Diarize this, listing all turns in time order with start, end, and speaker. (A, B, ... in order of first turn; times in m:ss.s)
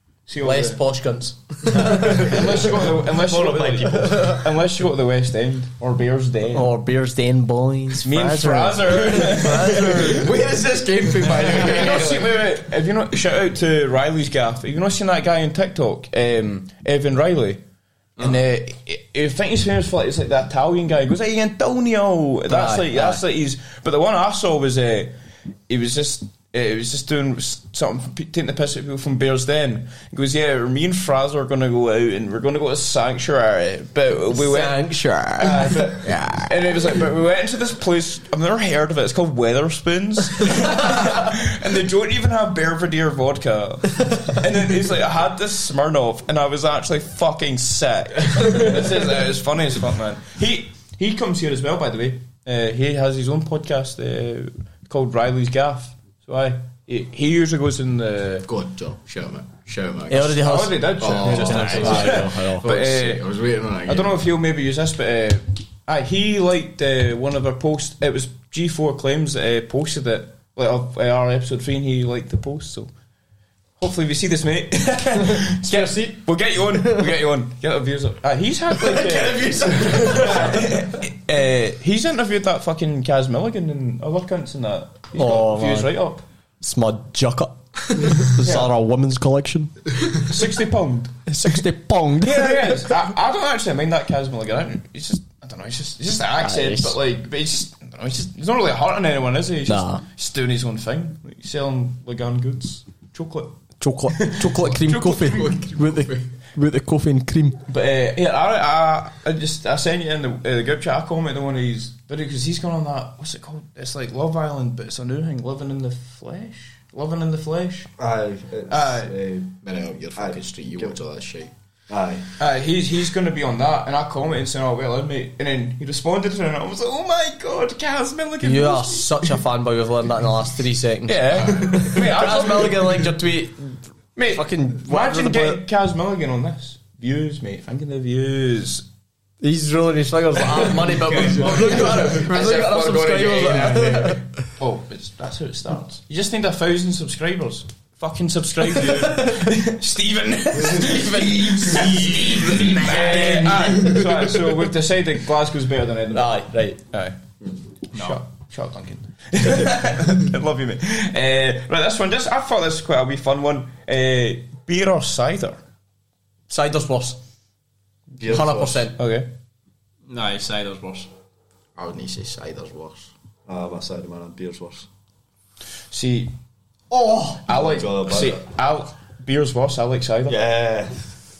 0:00.3-0:00.8 A
0:00.4-0:02.2 B
0:01.7-0:06.7 A
0:01.8-0:04.4 C
0:06.5-0:10.3 B
0:08.0-0:10.3 A
0:09.6-0:12.3 D
0:11.2-0:17.6 A
0:11.6-0:12.2 C
0:18.2-0:25.1 A
0:22.5-0:23.2 B
0:25.7-0:34.9 A
0:34.3-0:36.5 B
0:35.4-0:58.5 A
0:58.4-1:04.3 D
1:00.1-1:02.6 B
1:00.4-1:03.3 A
1:01.2-1:02.2 E
1:03.8-1:12.9 A
1:13.8-1:26.2 A
1:15.2-1:17.1 B
1:18.7-1:20.8 B
1:25.1-1:25.9 B
1:26.6-1:29.7 B
1:28.4-1:28.7 A
1:30.1-1:31.6 A
1:31.3-1:32.9 B
1:32.2-1:43.6 A
1:36.4-1:37.0 B
1:39.7-1:40.0 B
1:43.8-1:47.6 B
1:44.1-1:45.5 A
1:45.0-1:46.3 D
1:47.7-1:57.9 A
1:58.0-1:59.5 C
1:58.7-1:59.2 A
1:59.6-2:01.5 D
2:00.2-2:01.0 C
2:01.9-2:02.3 C
2:02.4-2:09.4 A
2:08.4-2:13.8 B
2:11.1-2:13.1 A
2:14.2-2:18.8 A
2:14.3-2:15.6 B
2:19.4-2:24.2 B
2:20.8-2:22.2 A
2:21.6-2:24.2 D
2:24.4-2:36.3 A
2:29.0-2:29.4 B
2:30.6-2:34.1 B
2:36.1-2:36.8 B
2:36.9-2:37.2 A
2:37.9-2:45.6 A
2:37.9-2:38.2 E
2:46.5-2:47.2 B
2:48.2-2:48.8 C
2:48.2-2:49.0 B
2:48.9-2:49.3 A
2:50.1-2:51.1 E
2:51.8-2:53.1 D
2:53.4-2:54.9 C
2:55.9-2:56.3 A
2:56.9-2:57.4 B
2:57.4-3:00.4 A
2:57.5-2:58.4 C
3:00.3-3:01.0 C